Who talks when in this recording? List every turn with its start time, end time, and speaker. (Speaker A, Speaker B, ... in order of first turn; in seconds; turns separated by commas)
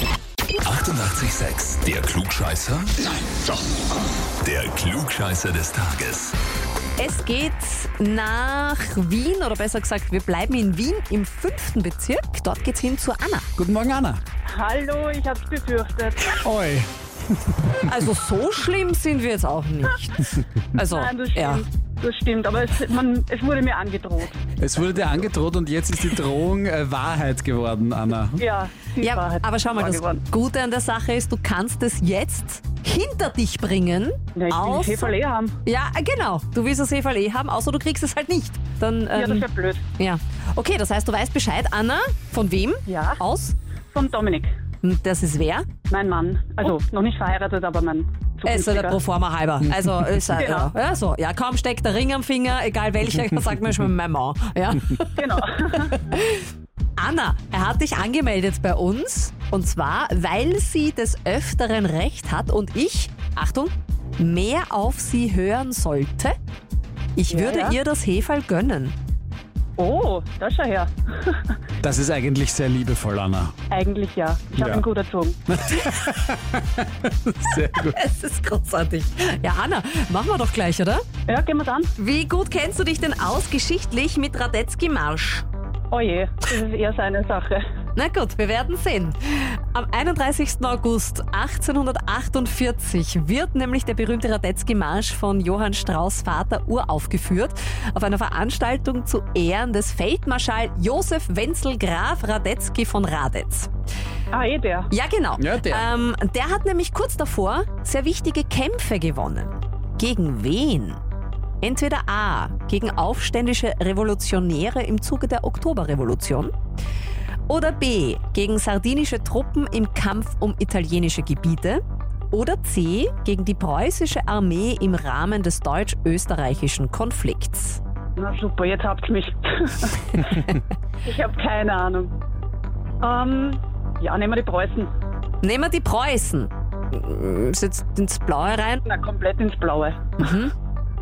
Speaker A: 0.6-3.6, Speaker A: 4.4-6.4, Speaker B: 7.0-13.5, Speaker C: 13.6-14.2, Speaker D: 14.5-16.4, Speaker C: 16.4-16.9, Speaker B: 17.8-21.6, Speaker D: 20.8-24.4, Speaker C: 24.6-28.4, Speaker D: 28.4-30.2, Speaker B: 29.0-35.1, Speaker D: 34.4-35.6, Speaker B: 35.6-39.5, Speaker D: 39.1-39.8, Speaker B: 40.0-43.5, Speaker D: 42.9-43.2, Speaker D: 43.9-44.5, Speaker B: 44.8-45.7, Speaker D: 45.9-49.0, Speaker B: 48.5-56.4, Speaker D: 50.4-50.7, Speaker D: 55.1-56.0, Speaker B: 57.0-66.3, Speaker B: 67.2-69.0, Speaker D: 67.3-67.8, Speaker D: 69.8-71.5, Speaker C: 71.8-73.5, Speaker D: 73.7-75.4, Speaker C: 74.6-74.8, Speaker C: 75.5-78.0, Speaker B: 77.8-81.0, Speaker D: 81.3-81.9, Speaker B: 82.0-85.5, Speaker D: 85.9-87.6, Speaker B: 88.0-103.7, Speaker D: 104.3-104.9, Speaker B: 104.9-111.0, Speaker C: 105.4-105.9, Speaker B: 111.6-116.5, Speaker B: 117.5-127.8, Speaker D: 128.2-130.5, Speaker D: 131.0-132.1, Speaker D: 133.0-134.9, Speaker B: 135.4-138.8, Speaker D: 138.8-140.0, Speaker B: 140.2-140.5